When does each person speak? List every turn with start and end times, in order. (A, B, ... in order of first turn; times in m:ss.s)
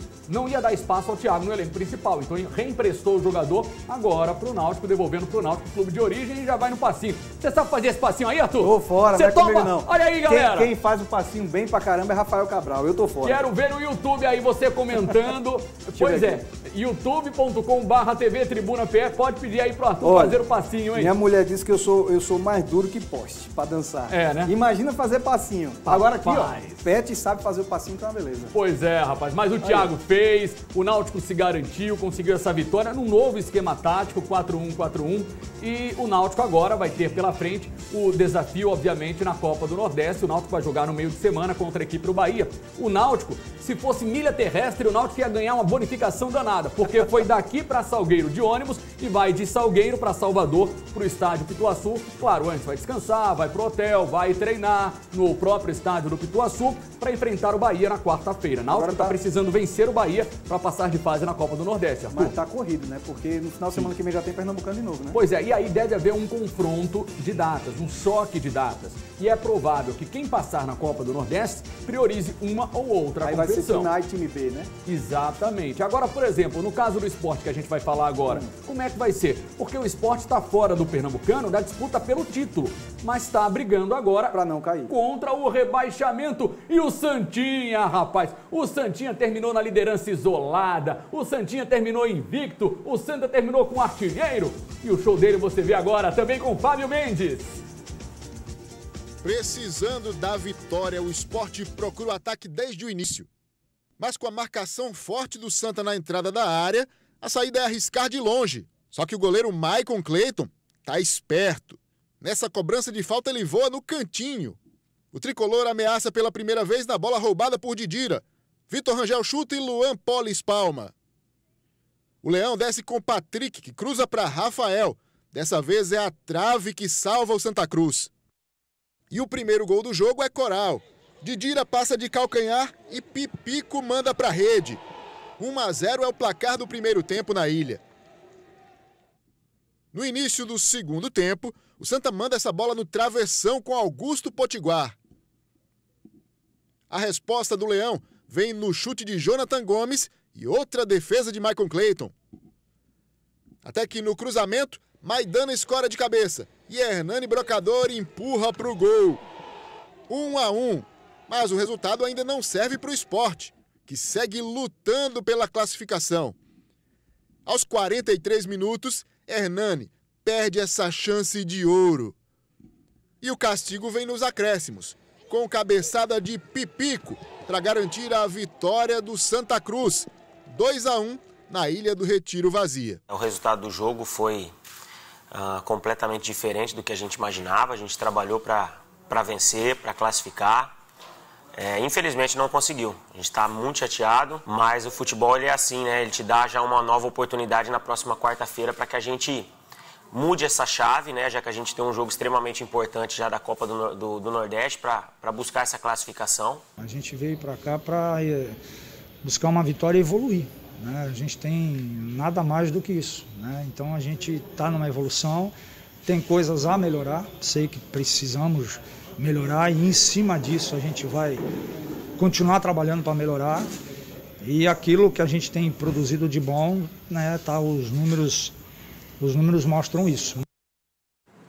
0:00.3-0:10.7 A
0:08.6-0:13.4 B
0:13.2-0:21.1 A
0:15.9-0:16.4 B
0:20.0-0:20.4 B
0:20.9-0:28.5 B
0:24.1-0:24.5 A
0:25.9-0:26.8 A
0:28.5-1:02.3 A
0:29.6-0:29.9 B
0:58.7-0:59.2 B
1:02.1-1:05.2 B
1:05.1-1:13.9 A
1:13.2-1:14.7 B
1:14.8-1:24.4 A
1:24.3-1:24.9 B
1:24.9-1:37.6 A
1:39.2-1:43.3 C
1:44.0-1:54.6 C
1:55.1-2:00.9 C
2:02.2-2:08.1 C
2:09.1-2:14.8 C
2:15.4-2:17.8 C
2:19.9-2:24.9 C
2:26.9-2:32.1 C
2:33.6-2:39.2 C
2:40.1-2:46.4 C
2:47.4-2:52.1 C
2:53.2-3:03.0 C
3:03.1-3:04.5 D
3:05.3-3:10.7 D
3:11.5-3:19.5 D
3:20.1-3:26.6 D
3:26.8-3:28.6 E
3:29.2-3:35.5 E
3:36.0-3:41.4 E
3:42.2-3:43.7 E
3:44.4-3:48.5 E
3:49.2-3:50.4 E